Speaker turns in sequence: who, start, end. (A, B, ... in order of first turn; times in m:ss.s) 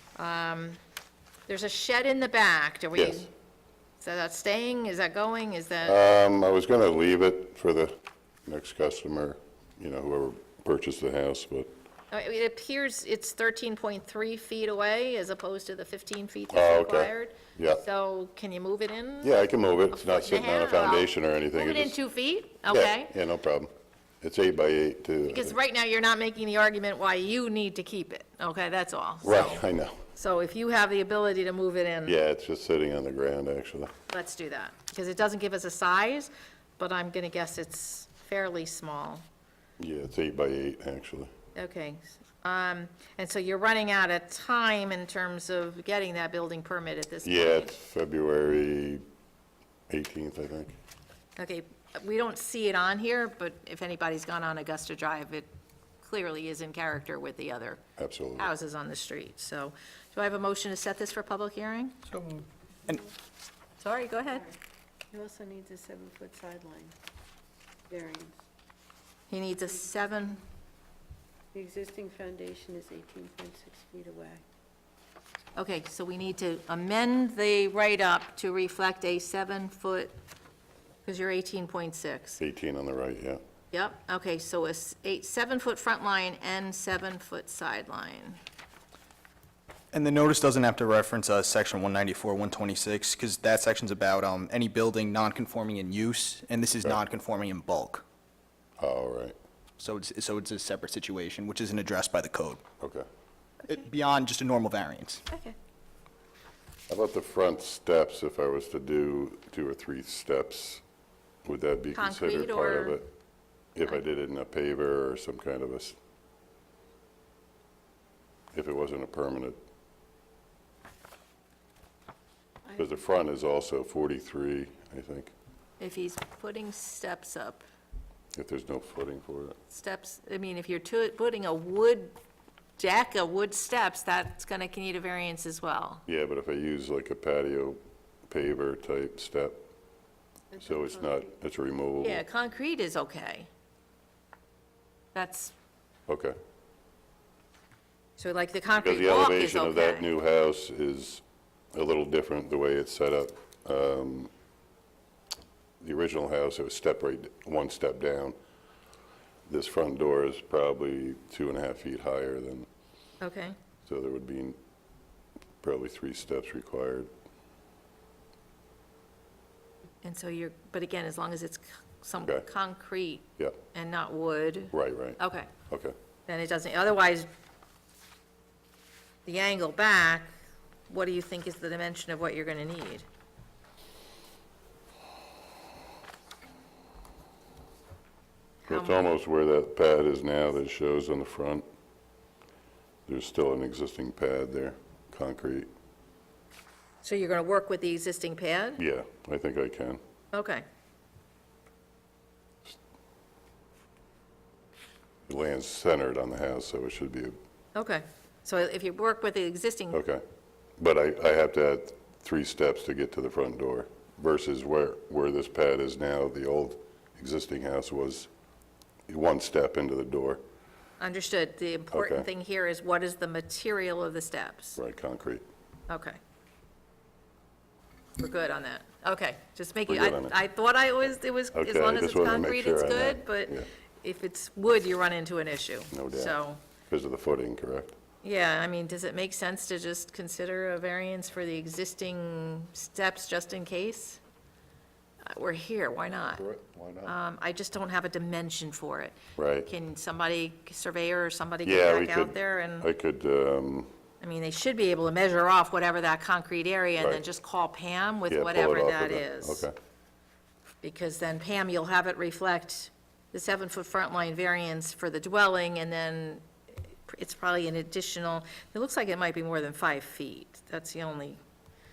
0:00.2-0:00.8 A
0:01.5-0:03.3 A
0:03.0-0:03.3 B
0:04.0-0:06.0 A
0:05.8-0:11.7 B
0:12.1-0:23.1 A
0:16.5-0:17.8 B
0:19.2-0:22.0 B
0:22.7-0:23.7 B
0:24.2-0:25.6 B
0:25.3-0:29.6 A
0:29.2-0:30.0 B
0:30.2-0:32.1 A
0:32.1-0:33.9 B
0:34.1-0:39.2 A
0:39.8-0:41.3 B
0:41.6-0:47.7 A
0:47.2-0:49.0 B
0:49.9-0:50.8 B
0:51.4-0:55.5 A
0:56.0-0:57.8 A
0:58.0-0:58.5 B
0:58.4-1:02.0 A
1:03.8-1:04.5 A
1:05.1-1:07.0 C
1:07.9-1:08.4 C
1:09.3-1:10.4 A
1:11.5-1:14.4 C
1:15.6-1:20.1 A
1:21.0-1:22.4 A
1:22.4-1:23.4 B
1:23.7-1:28.4 A
1:29.9-1:38.0 D
1:38.8-1:39.4 B
1:39.8-1:42.6 D
1:43.7-1:45.2 D
1:45.3-1:45.6 A
1:46.9-1:50.8 B
1:51.4-1:53.1 B
1:52.0-1:53.0 A
1:53.8-1:56.0 B
1:58.5-1:59.6 B
2:02.8-2:05.3 B
2:05.8-2:07.6 A
2:08.4-2:09.6 B
2:09.7-2:12.2 A
2:12.8-2:16.0 A
2:16.1-2:19.6 B
2:20.6-2:20.8 C
2:20.6-2:22.2 B
2:22.0-2:23.5 A
2:25.1-2:25.5 A
2:26.1-2:26.4 B
2:28.2-2:30.1 A
2:28.8-2:31.2 B
2:31.7-2:34.3 B
2:35.8-2:38.4 B
2:39.5-2:42.7 B
2:43.2-2:43.6 A
2:43.8-2:44.6 B
2:45.6-2:47.1 B
2:50.0-2:55.5 A
2:54.7-2:55.9 B
2:56.3-2:57.3 A
2:59.3-3:00.3 A
3:00.9-3:03.0 A
3:08.7-3:11.6 B
3:08.7-3:09.0 A
3:13.1-3:15.7 B
3:17.0-3:18.8 A
3:18.8-3:20.0 B
3:20.3-3:20.6 A
3:25.3-3:27.4 B
3:27.8-3:30.0 A
3:29.9-3:30.2 B
3:30.8-3:38.3 B
3:39.1-3:40.4 B
3:41.0-3:44.8 A
3:41.9-3:42.3 B
3:44.8-3:45.4 B
3:45.9-3:46.2 A
3:48.2-3:56.6 A
3:49.9-3:50.3 B
3:51.6-3:53.7 B
3:55.9-3:57.9 B
3:58.2-4:04.2 A
4:05.3-4:06.4 A
4:06.4-4:07.1 B
4:07.0-4:09.2 A
4:09.4-4:09.7 B
4:09.7-4:12.9 A
4:11.6-4:13.9 B
4:14.2-4:19.7 A
4:18.3-4:19.7 B
4:20.8-4:26.4 A
4:27.1-4:31.4 A